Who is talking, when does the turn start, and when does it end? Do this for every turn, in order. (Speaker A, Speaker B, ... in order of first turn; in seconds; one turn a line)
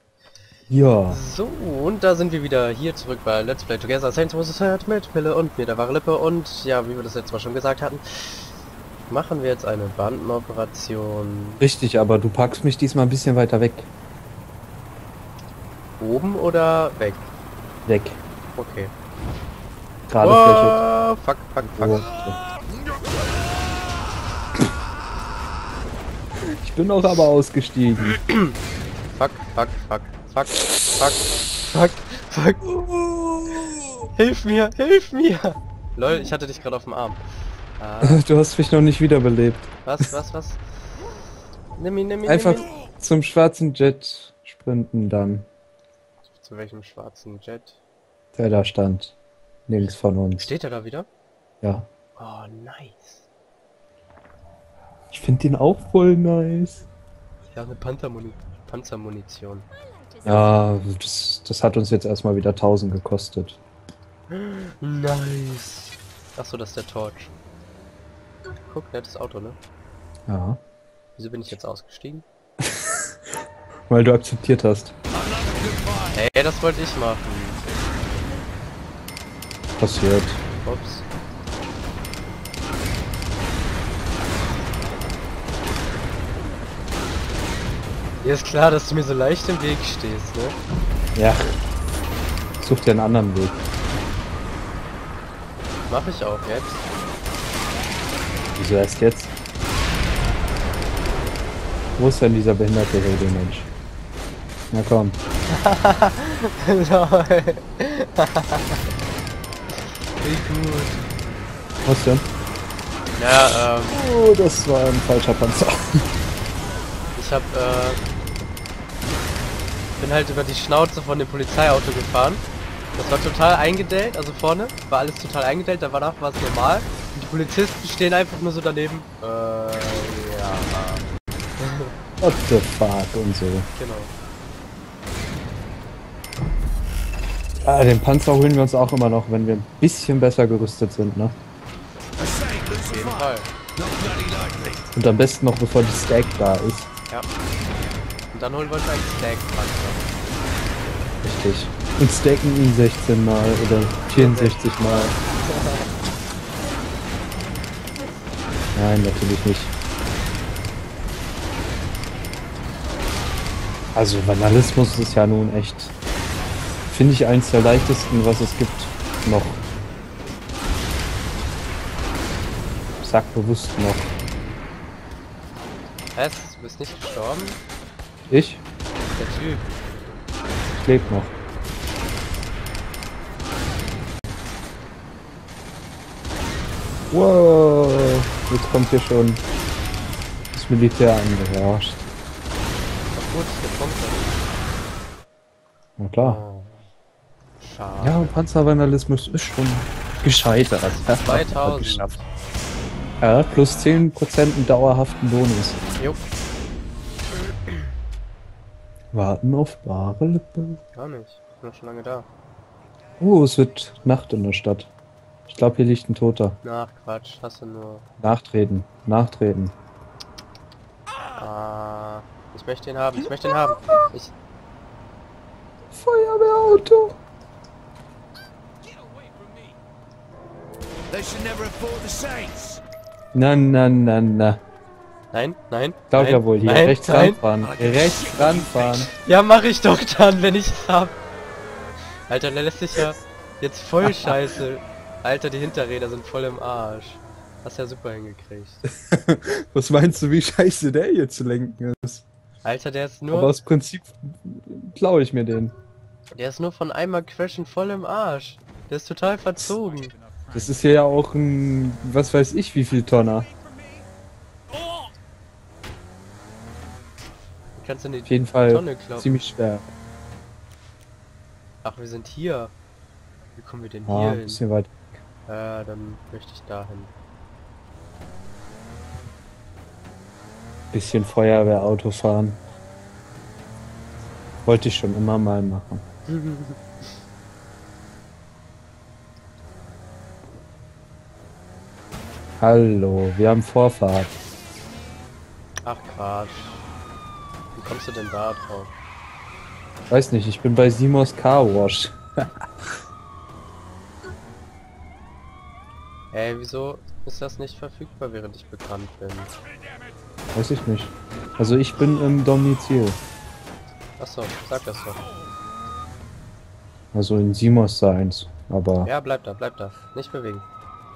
Speaker A: 0.7-1.2
Speaker B: 1.1-8.5
Speaker B: 9.1-11.6
Speaker A: 11.6-13.9
Speaker B: 16.0-17.3
Speaker A: 17.9-18.2
Speaker B: 18.6-18.9
Speaker A: 20.1-20.8
Speaker B: 20.2-22.1
Speaker A: 21.6-22.4
Speaker A: 26.4-28.2
Speaker B: 28.2-28.6
Speaker B: 29.1-32.7
Speaker A: 32.7-33.9
Speaker B: 34.1-37.2
Speaker B: 37.8-38.2
Speaker A: 38.0-39.7
Speaker B: 39.9-40.6
Speaker B: 41.8-42.7
Speaker A: 42.3-45.5
Speaker B: 46.4-47.8
Speaker A: 48.4-49.1
Speaker A: 49.7-50.5
Speaker B: 50.4-51.1
Speaker A: 51.6-51.9
Speaker B: 52.2-53.2
Speaker A: 55.1-56.9
Speaker B: 57.5-59.7
Speaker A: 60.2-63.6
Speaker B: 64.3-67.3
Speaker B: 68.7-69.6
Speaker A: 70.3-70.6
Speaker B: 71.2-72.2
Speaker A: 72.6-73.1
Speaker A: 73.9-74.9
Speaker C: 75.1-76.2
Speaker B: 76.1-77.6
Speaker A: 79.8-80.4
Speaker B: 80.6-81.0
Speaker B: 88.2-90.6
Speaker A: 91.2-91.6
Speaker A: 92.6-93.6
Speaker B: 95.9-96.8
Speaker A: 98.6-99.3
Speaker A: 102.0-103.7
Speaker A: 104.7-105.2
Speaker B: 105.5-108.9
Speaker B: 110.2-111.1
Speaker A: 111.8-112.2
Speaker B: 113.2-114.0
Speaker A: 113.9-116.1
Speaker B: 117.2-118.0
Speaker B: 120.0-122.4
Speaker B: 123.0-131.1
Speaker B: 131.6-131.9
Speaker A: 132.2-133.7
Speaker B: 133.8-134.1
Speaker A: 137.6-141.3
Speaker C: 142.2-144.9
Speaker B: 142.9-143.5
Speaker A: 144.9-146.9
Speaker B: 148.3-150.1
Speaker A: 151.2-155.2
Speaker B: 154.1-155.9
Speaker A: 158.8-159.7
Speaker A: 163.9-165.9
Speaker A: 166.9-169.6
Speaker A: 173.0-174.1
Speaker B: 176.1-177.6
Speaker A: 178.3-178.6
Speaker B: 179.2-179.7
Speaker A: 180.7-181.3
Speaker A: 187.1-189.4
Speaker A: 190.5-192.0
Speaker B: 193.1-194.3
Speaker A: 196.0-196.4
Speaker B: 196.2-196.9
Speaker B: 197.6-198.4
Speaker A: 198.0-202.2
Speaker B: 201.0-202.2
Speaker A: 203.2-205.8
Speaker A: 209.1-210.8
Speaker B: 210.9-212.3
Speaker A: 213.2-214.9
Speaker A: 215.5-216.6
Speaker B: 216.6-218.1
Speaker A: 218.2-219.7
Speaker B: 221.4-224.3
Speaker A: 225.9-227.2
Speaker C: 231.1-232.8
Speaker A: 233.3-234.6
Speaker B: 235.3-237.4
Speaker A: 236.1-239.1
Speaker C: 237.6-239.1
Speaker B: 239.2-241.2
Speaker B: 242.3-248.8
Speaker A: 244.1-244.3
Speaker A: 248.9-252.3
Speaker B: 252.6-253.6
Speaker A: 253.3-255.8
Speaker B: 256.4-260.1
Speaker A: 260.5-263.5
Speaker B: 267.8-269.4
Speaker A: 268.3-269.9
Speaker B: 271.8-272.7
Speaker B: 273.6-274.6
Speaker A: 274.1-275.2
Speaker B: 275.5-277.1
Speaker A: 280.9-282.6
Speaker A: 284.7-286.0
Speaker B: 286.3-286.8
Speaker A: 292.6-294.4
Speaker B: 295.8-296.8
Speaker B: 297.8-298.9
Speaker A: 300.1-302.7
Speaker B: 306.3-309.5
Speaker A: 310.5-313.2
Speaker B: 314.2-315.2
Speaker A: 317.1-319.1
Speaker B: 319.0-320.7